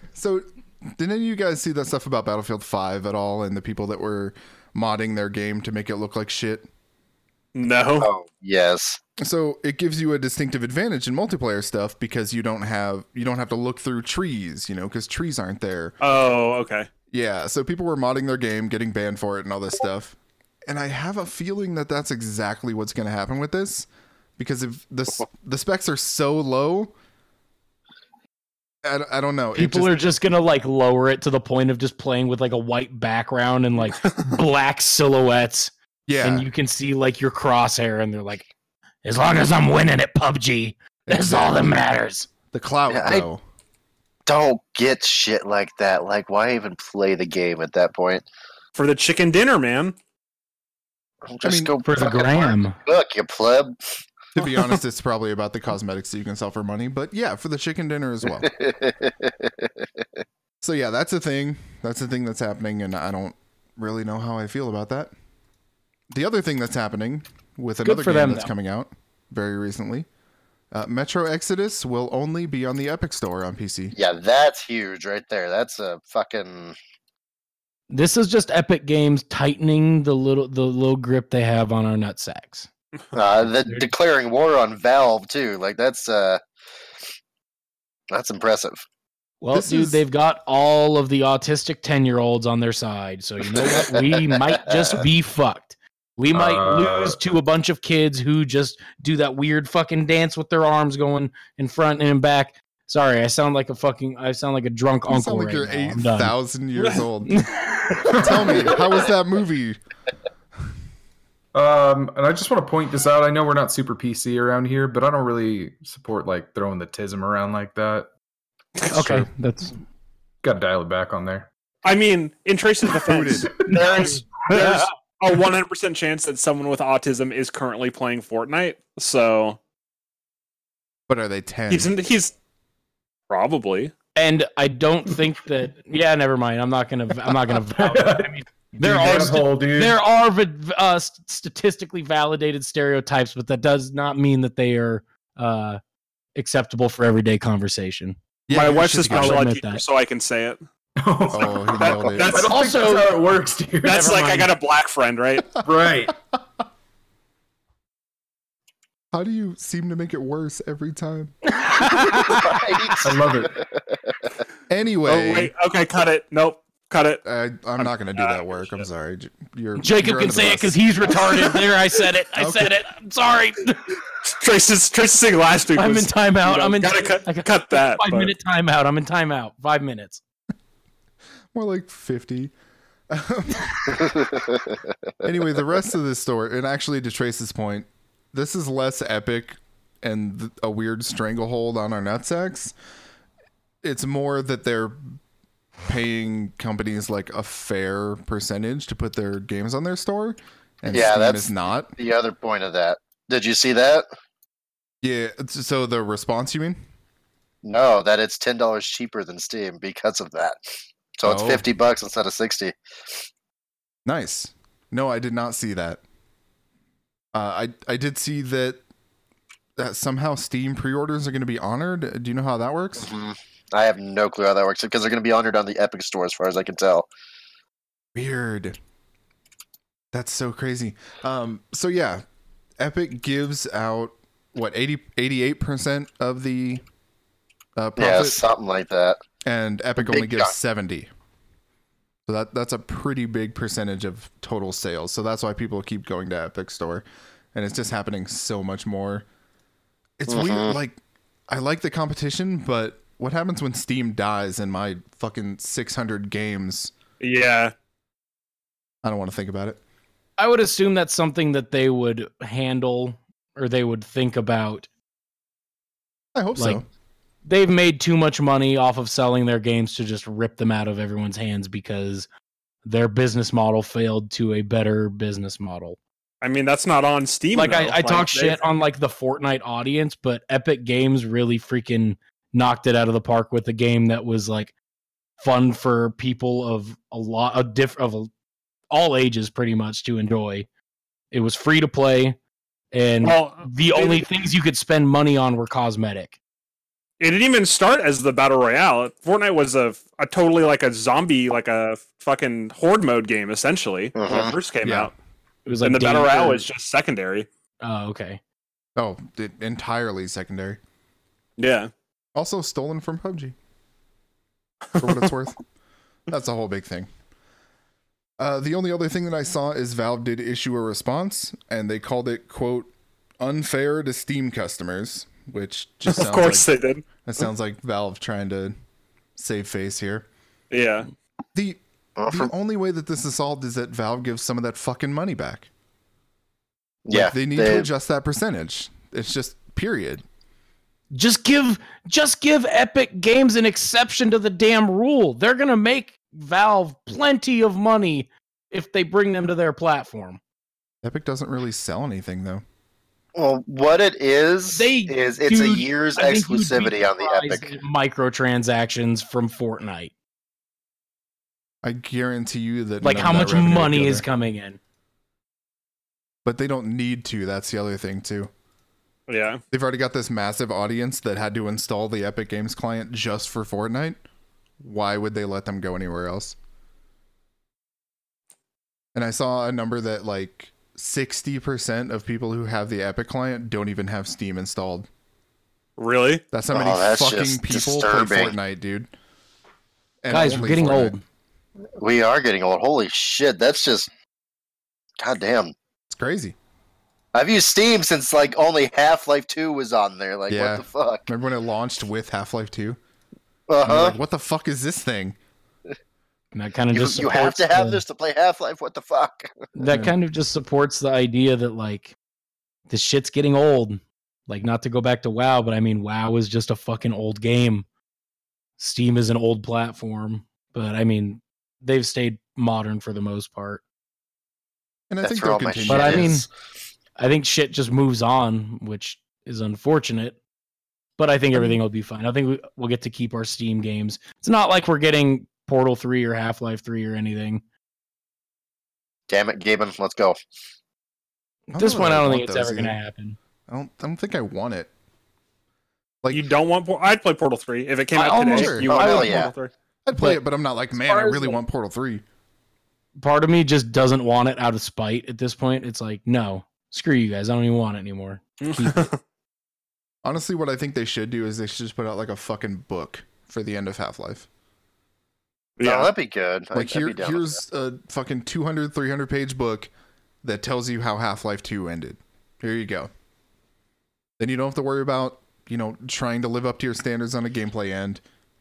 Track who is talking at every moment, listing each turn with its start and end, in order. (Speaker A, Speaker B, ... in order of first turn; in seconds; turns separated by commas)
Speaker A: 0.1-6.7, Speaker B: 7.5-8.1, Speaker C: 8.0-9.0, Speaker A: 9.2-15.9, Speaker B: 16.0-16.9, Speaker A: 17.1-20.1, Speaker A: 20.7-23.9, Speaker A: 24.4-26.9, Speaker A: 28.8-30.0, Speaker D: 29.5-35.7, Speaker A: 36.1-36.5, Speaker D: 36.2-38.5, Speaker D: 39.0-42.3, Speaker A: 41.1-41.7, Speaker A: 42.5-43.4, Speaker C: 42.9-43.2, Speaker C: 44.3-48.2, Speaker B: 48.7-49.9, Speaker C: 51.2-53.8, Speaker A: 51.4-51.7, Speaker D: 51.8-52.8, Speaker A: 54.3-58.5, Speaker C: 58.4-59.8, Speaker A: 60.6-65.1, Speaker A: 66.1-70.1, Speaker D: 67.8-68.5, Speaker A: 70.7-73.9, Speaker C: 73.9-76.8, Speaker D: 77.9-82.7, Speaker C: 83.1-86.4, Speaker C: 88.1-88.8, Speaker D: 89.4-106.3, Speaker A: 89.5-90.0, Speaker C: 93.6-95.0, Speaker E: 96.3-97.2, Speaker A: 105.1-107.5, Speaker D: 107.3-108.8, Speaker E: 108.1-108.8, Speaker A: 108.2-109.8, Speaker E: 111.5-118.1, Speaker D: 118.9-119.8, Speaker E: 120.4-121.5, Speaker B: 121.8-129.6, Speaker A: 123.0-123.5, Speaker D: 123.7-124.9, Speaker A: 131.1-131.9, Speaker B: 131.7-132.3, Speaker B: 133.3-133.9, Speaker D: 134.2-145.8, Speaker E: 137.7-140.0, Speaker D: 146.3-148.2, Speaker A: 148.5-149.4, Speaker B: 148.5-150.6, Speaker D: 149.0-149.8, Speaker E: 151.0-154.1, Speaker A: 151.3-152.3, Speaker B: 151.7-152.6, Speaker D: 152.3-153.2, Speaker D: 153.8-154.5, Speaker B: 153.8-155.5, Speaker E: 155.6-156.1, Speaker A: 159.1-161.3, Speaker D: 161.4-163.1, Speaker C: 162.1-164.1, Speaker E: 163.0-163.6, Speaker A: 164.7-165.5, Speaker B: 165.1-167.2, Speaker A: 167.2-171.1, Speaker B: 167.8-168.8, Speaker D: 169.8-174.0, Speaker A: 172.3-172.8, Speaker B: 174.2-178.3, Speaker D: 175.8-180.2, Speaker A: 181.5-182.5, Speaker A: 183.1-184.2, Speaker C: 184.0-184.7, Speaker A: 185.2-192.7, Speaker A: 193.8-195.2, Speaker A: 195.8-201.9, Speaker C: 200.9-204.0, Speaker A: 205.0-206.8, Speaker C: 207.6-210.6, Speaker C: 211.2-212.7, Speaker A: 211.2-211.6, Speaker A: 214.1-216.0, Speaker A: 217.3-218.8, Speaker A: 219.8-223.1, Speaker C: 223.0-227.1, Speaker A: 228.1-228.8, Speaker A: 230.1-232.2, Speaker A: 232.8-236.8, Speaker A: 237.8-238.4, Speaker C: 238.0-239.2, Speaker A: 239.4-241.1, Speaker C: 240.0-240.5, Speaker A: 242.3-249.2, Speaker A: 250.2-251.0, Speaker C: 250.3-250.8, Speaker A: 251.5-256.9, Speaker B: 257.2-257.7, Speaker A: 259.0-259.8, Speaker D: 260.4-264.9, Speaker A: 266.3-266.8, Speaker D: 266.6-266.8, Speaker D: 267.4-272.3, Speaker D: 272.8-276.0, Speaker B: 276.4-278.6, Speaker D: 277.5-284.7, Speaker D: 285.4-288.3, Speaker D: 288.9-290.7, Speaker D: 291.3-292.4, Speaker D: 292.9-296.4, Speaker B: 293.2-294.2, Speaker B: 297.2-305.1, Speaker C: 304.1-304.5, Speaker A: 304.8-305.1, Speaker D: 305.6-306.6, Speaker B: 305.8-307.5, Speaker D: 307.8-308.4, Speaker A: 309.0-310.8, Speaker B: 311.6-311.9, Speaker A: 312.3-313.5, Speaker A: 315.0-315.6, Speaker A: 316.3-317.1, Speaker A: 318.4-326.7, Speaker B: 326.1-327.0, Speaker A: 327.2-328.7, Speaker A: 329.4-330.2, Speaker B: 330.7-331.1, Speaker A: 331.5-335.7, Speaker C: 332.2-332.5, Speaker C: 337.0-337.9, Speaker A: 337.1-340.2, Speaker D: 341.1-350.4, Speaker A: 351.0-352.6, Speaker C: 353.3-357.8, Speaker D: 354.7-360.1, Speaker A: 361.8-364.2, Speaker D: 363.0-364.8, Speaker A: 366.4-368.5, Speaker B: 369.3-369.6, Speaker A: 369.7-374.2, Speaker A: 374.8-376.6, Speaker A: 379.1-385.1, Speaker B: 386.0-386.4, Speaker A: 386.5-389.1, Speaker C: 386.7-388.5, Speaker A: 390.2-391.1, Speaker D: 390.3-391.2, Speaker C: 392.0-394.1, Speaker C: 395.2-395.7, Speaker A: 396.1-396.6, Speaker C: 397.3-401.3, Speaker A: 400.5-403.0, Speaker C: 403.7-404.2, Speaker A: 403.8-405.4, Speaker D: 406.5-408.0, Speaker C: 406.9-409.7, Speaker D: 409.8-412.1, Speaker A: 409.9-410.1, Speaker D: 412.9-417.9, Speaker D: 418.8-423.8, Speaker A: 425.1-426.3, Speaker C: 425.2-426.5, Speaker D: 425.9-426.4, Speaker D: 427.2-430.4, Speaker D: 431.2-437.6, Speaker C: 439.3-440.4, Speaker A: 441.7-443.0, Speaker D: 441.8-443.4, Speaker A: 443.7-444.9, Speaker B: 446.3-449.7, Speaker D: 448.1-449.4, Speaker A: 448.5-448.9, Speaker C: 448.9-449.5, Speaker A: 450.0-452.2, Speaker D: 450.1-450.4, Speaker D: 451.0-451.6, Speaker D: 453.2-459.1, Speaker B: 458.6-459.2, Speaker A: 460.2-464.5, Speaker B: 465.8-466.1, Speaker C: 465.8-467.6, Speaker A: 466.7-469.9, Speaker A: 470.4-473.1, Speaker A: 474.4-478.2